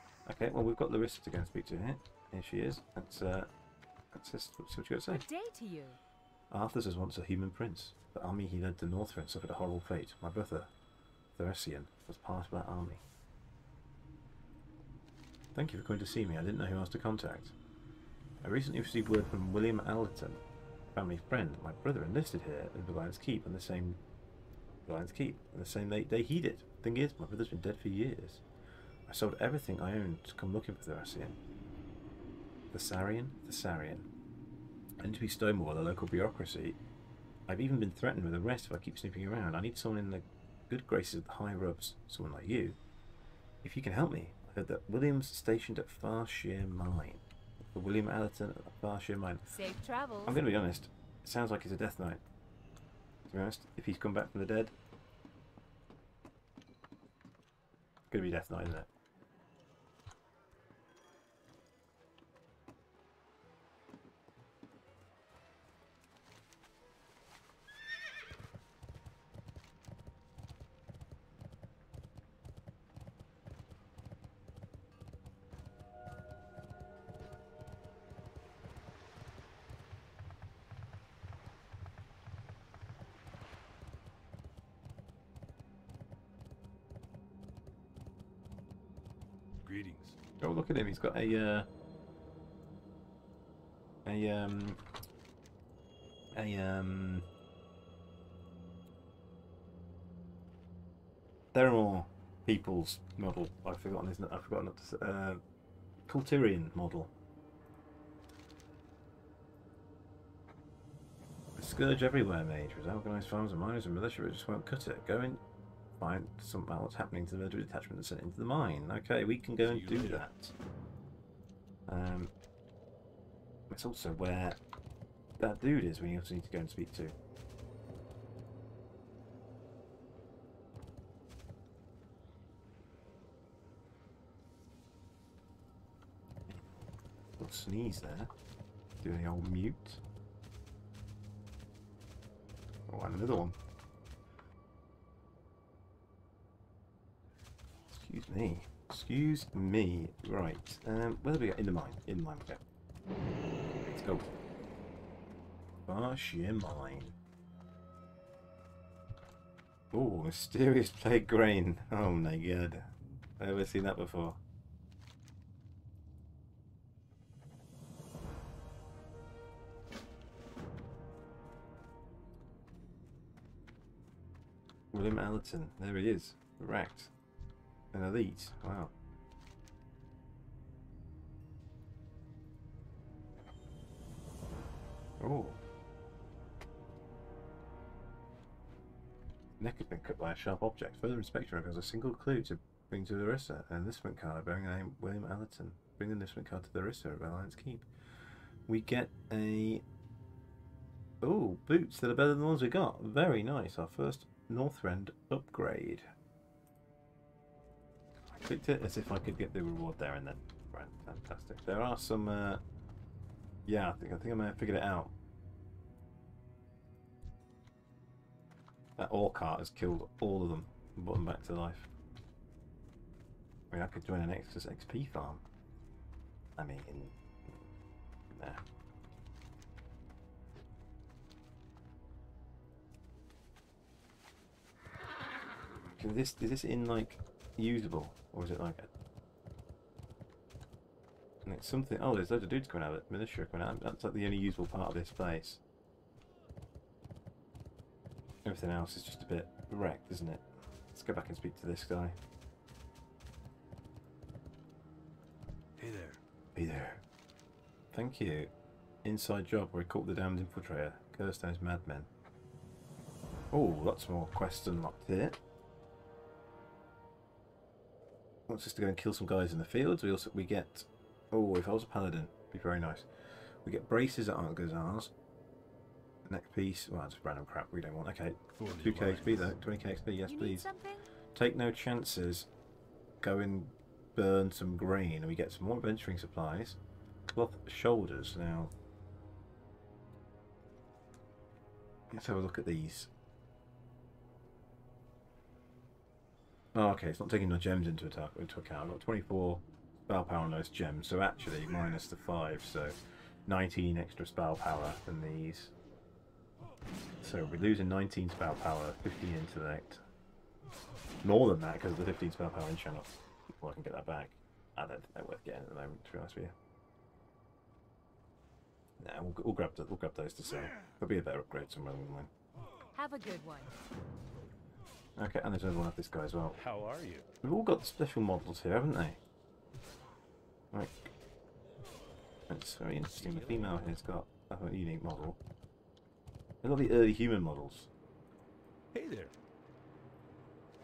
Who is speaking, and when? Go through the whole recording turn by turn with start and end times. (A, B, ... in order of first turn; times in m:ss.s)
0:00.2-0:03.5 A
0:04.1-0:05.2 A
0:05.1-0:06.0 B
0:06.5-0:10.7 A
0:11.4-0:13.0 A
0:15.5-0:17.5 A
0:18.4-0:20.4 A
0:20.9-0:24.0 A
0:24.8-0:28.4 A
0:29.1-0:31.3 A
0:32.7-0:34.1 A
0:35.0-0:36.8 A
0:37.5-0:42.8 A
0:43.6-0:49.5 A
0:49.4-0:50.4 B
0:50.2-0:52.2 A
0:53.3-0:54.7 A
0:58.1-0:58.9 A
1:29.6-1:30.2 C
1:30.4-1:31.7 A
1:34.0-1:34.8 A
1:36.3-1:37.3 A
1:41.5-1:45.4 A
1:46.1-1:47.1 A
1:51.6-1:55.4 A
1:56.0-2:00.5 A
1:59.6-2:00.2 C
2:01.9-2:02.3 A
2:03.7-2:04.6 A
2:05.4-2:07.1 A
2:17.4-2:18.3 A
2:19.0-2:20.0 A
2:22.9-2:23.6 A
2:27.9-2:32.6 A
2:33.9-2:34.3 A
2:35.9-2:37.2 A
2:39.9-2:44.4 A
2:54.9-2:57.1 A
2:57.9-2:58.9 A
3:05.2-3:05.6 A
3:09.6-3:17.8 A
3:18.7-3:19.8 A
3:21.2-3:26.1 A
3:28.4-3:32.6 A
3:33.6-3:35.1 A
3:39.0-3:41.9 A
3:43.7-3:45.4 A
3:46.6-3:47.6 A
3:48.3-3:48.6 A
3:56.0-3:58.9 A
4:01.4-4:05.6 A
4:08.4-4:12.2 A
4:15.8-4:16.2 C
4:16.5-4:17.0 A
4:17.9-4:18.5 A
4:19.0-4:22.1 A
4:23.5-4:25.4 A
4:28.5-4:33.1 A
4:33.6-4:35.1 A
4:36.2-4:40.7 A
4:38.5-4:39.6 C
4:40.2-4:41.1 B
4:41.3-4:42.5 A
4:43.2-4:46.8 A
4:47.3-4:48.7 A
4:52.1-4:53.1 A
4:56.7-5:05.7 A
5:07.2-5:10.0 A
5:11.2-5:16.5 A
5:19.0-5:22.3 A
5:22.9-5:23.7 B
5:25.2-5:26.6 A
5:27.4-5:29.2 A
5:30.7-5:31.1 A
5:32.5-5:35.4 A
5:36.6-5:37.9 A